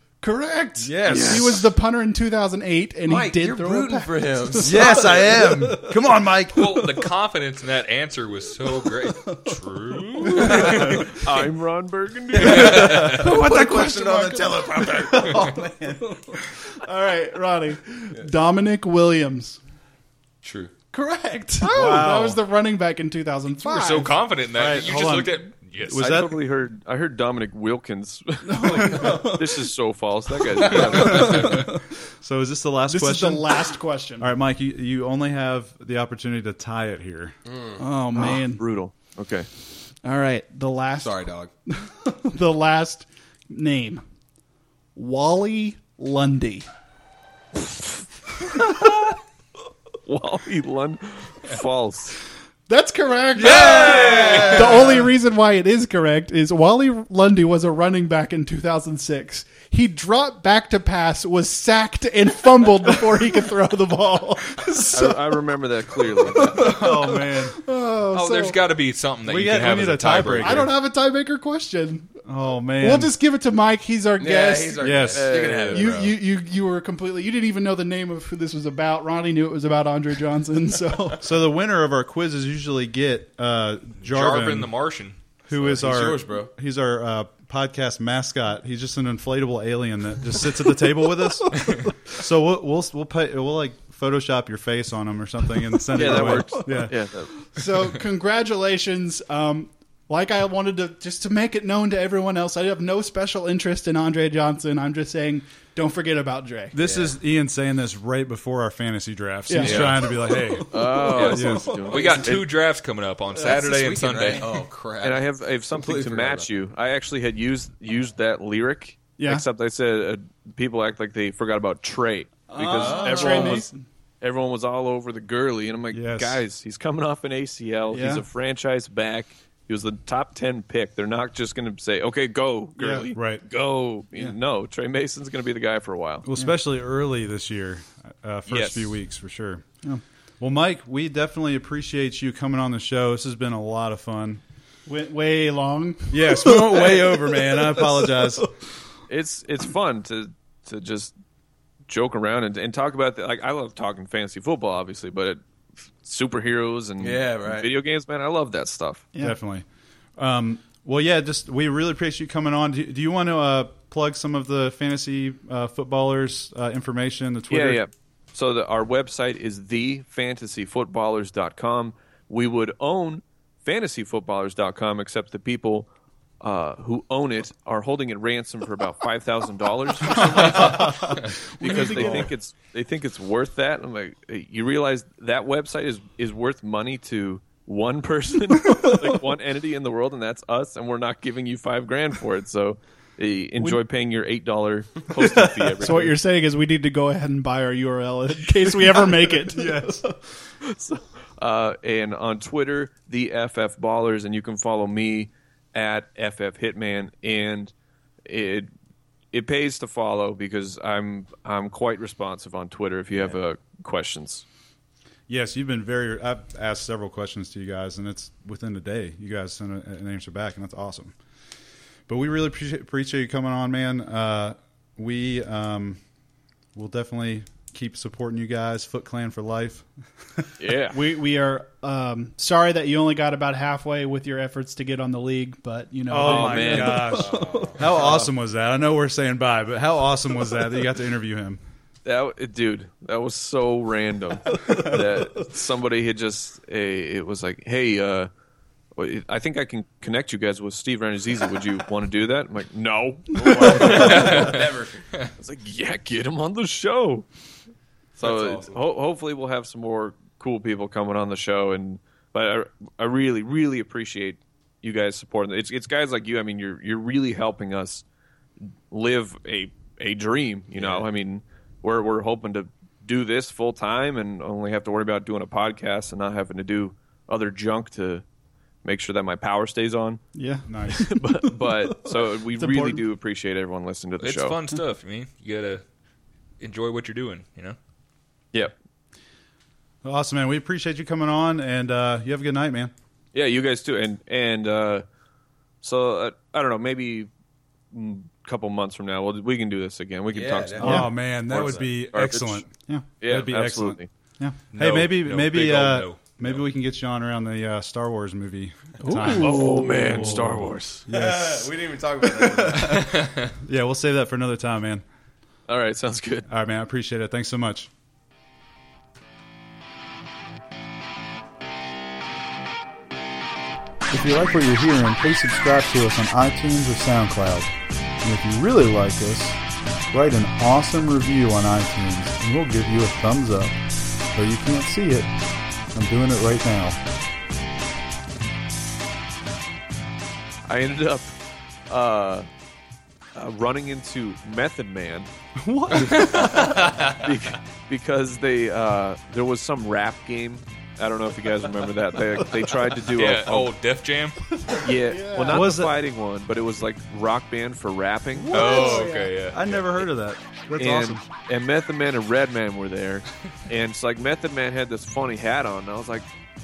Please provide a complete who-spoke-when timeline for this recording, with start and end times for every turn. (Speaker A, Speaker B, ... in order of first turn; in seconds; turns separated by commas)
Speaker A: 0.2-5.9, Speaker B: 0.9-1.4, Speaker C: 0.9-1.4, Speaker D: 1.1-1.6, Speaker C: 3.0-5.6, Speaker B: 4.6-6.9, Speaker E: 6.5-11.2, Speaker A: 9.2-11.1, Speaker D: 10.2-13.2, Speaker C: 10.4-10.8, Speaker E: 12.3-13.4, Speaker A: 12.4-19.6, Speaker C: 12.5-16.2, Speaker B: 13.2-14.0, Speaker C: 20.4-20.7, Speaker A: 20.9-24.2, Speaker B: 21.6-22.4, Speaker E: 21.7-22.1, Speaker E: 23.6-26.2, Speaker B: 24.5-26.4, Speaker D: 25.9-31.7, Speaker A: 28.4-29.7, Speaker A: 30.7-31.8, Speaker B: 31.1-31.6, Speaker B: 32.2-33.6, Speaker A: 32.9-34.3, Speaker B: 34.2-37.4, Speaker C: 37.5-37.8, Speaker A: 37.8-38.6, Speaker D: 38.1-39.5, Speaker A: 40.0-44.0, Speaker C: 41.0-41.5, Speaker A: 44.9-46.6, Speaker D: 50.0-52.2, Speaker A: 52.7-65.4, Speaker E: 53.4-54.8, Speaker D: 53.4-54.6, Speaker C: 53.8-54.6, Speaker D: 64.8-66.8, Speaker A: 66.3-68.6, Speaker B: 66.5-67.6, Speaker E: 68.1-70.7, Speaker B: 69.2-70.7, Speaker A: 70.4-72.2, Speaker B: 72.2-73.1, Speaker A: 72.8-75.0, Speaker C: 74.2-76.1, Speaker B: 74.8-75.4, Speaker D: 75.1-76.0, Speaker A: 75.6-81.2, Speaker B: 81.2-84.7, Speaker E: 84.0-85.2, Speaker B: 85.5-97.0, Speaker C: 85.5-86.5, Speaker D: 95.9-97.3, Speaker A: 95.9-106.8, Speaker B: 106.7-111.6, Speaker C: 106.8-107.1, Speaker A: 109.5-112.2, Speaker E: 109.6-110.0, Speaker D: 109.6-112.5, Speaker E: 111.1-114.5, Speaker C: 113.4-116.5, Speaker D: 115.0-123.7, Speaker A: 119.2-119.4, Speaker A: 122.5-123.8, Speaker C: 122.7-123.6, Speaker D: 124.2-136.3, Speaker B: 125.9-126.4, Speaker A: 127.9-128.2, Speaker B: 132.8-133.4, Speaker B: 136.2-139.7, Speaker D: 138.5-138.9, Speaker B: 140.4-144.4, Speaker A: 144.9-146.8, Speaker B: 146.1-148.5, Speaker D: 149.1-151.1, Speaker D: 151.9-155.4, Speaker D: 156.0-159.1, Speaker C: 157.0-157.7, Speaker B: 159.2-159.6, Speaker B: 160.2-167.8, Speaker D: 167.5-175.9, Speaker D: 176.4-196.2, Speaker A: 180.6-182.3, Speaker B: 181.8-182.3, Speaker A: 195.4-200.0, Speaker B: 199.5-200.1, Speaker D: 200.6-207.7, Speaker D: 208.2-208.7, Speaker D: 209.3-214.4, Speaker B: 215.3-221.1, Speaker B: 222.1-226.0, Speaker B: 226.7-229.9, Speaker D: 230.6-231.0, Speaker A: 230.9-237.7, Speaker B: 236.1-241.6, Speaker D: 236.2-237.3, Speaker C: 237.0-238.1, Speaker D: 237.9-238.3, Speaker D: 242.0-248.3, Speaker A: 244.6-245.0, Speaker D: 248.9-254.7, Speaker C: 253.3-255.0, Speaker E: 253.7-254.6, Speaker D: 255.3-257.2, Speaker C: 258.2-258.8, Speaker D: 258.2-268.0, Speaker D: 268.9-278.2, Speaker C: 270.8-271.0, Speaker D: 278.8-280.2, Speaker A: 280.3-283.0, Speaker B: 280.7-281.1, Speaker D: 280.9-284.6, Speaker E: 284.2-285.8, Speaker E: 286.6-287.8, Speaker B: 290.0-292.9, Speaker D: 293.3-295.1, Speaker D: 295.8-297.3, Speaker D: 297.9-302.6, Speaker C: 300.3-301.0, Speaker B: 300.8-311.7, Speaker A: 300.8-301.1, Speaker D: 303.2-304.1, Speaker E: 304.7-306.6, Speaker A: 309.0-310.5, Speaker D: 309.1-311.1, Speaker C: 311.1-313.2, Speaker B: 312.2-315.0, Speaker E: 312.9-313.5, Speaker D: 315.7-316.5, Speaker B: 316.5-317.9, Speaker B: 324.1-329.6, Speaker B: 330.1-333.8, Speaker B: 334.3-335.4, Speaker B: 335.9-337.0, Speaker D: 340.7-341.3, Speaker D: 341.9-342.5, Speaker D: 343.3-345.3, Speaker B: 345.6-346.7, Speaker E: 345.9-347.4, Speaker D: 346.0-353.7, Speaker E: 353.1-354.4, Speaker A: 354.5-355.8, Speaker D: 354.8-358.7, Speaker B: 355.5-356.0, Speaker B: 358.3-361.2, Speaker E: 358.5-360.0, Speaker A: 358.5-359.3, Speaker D: 360.8-366.3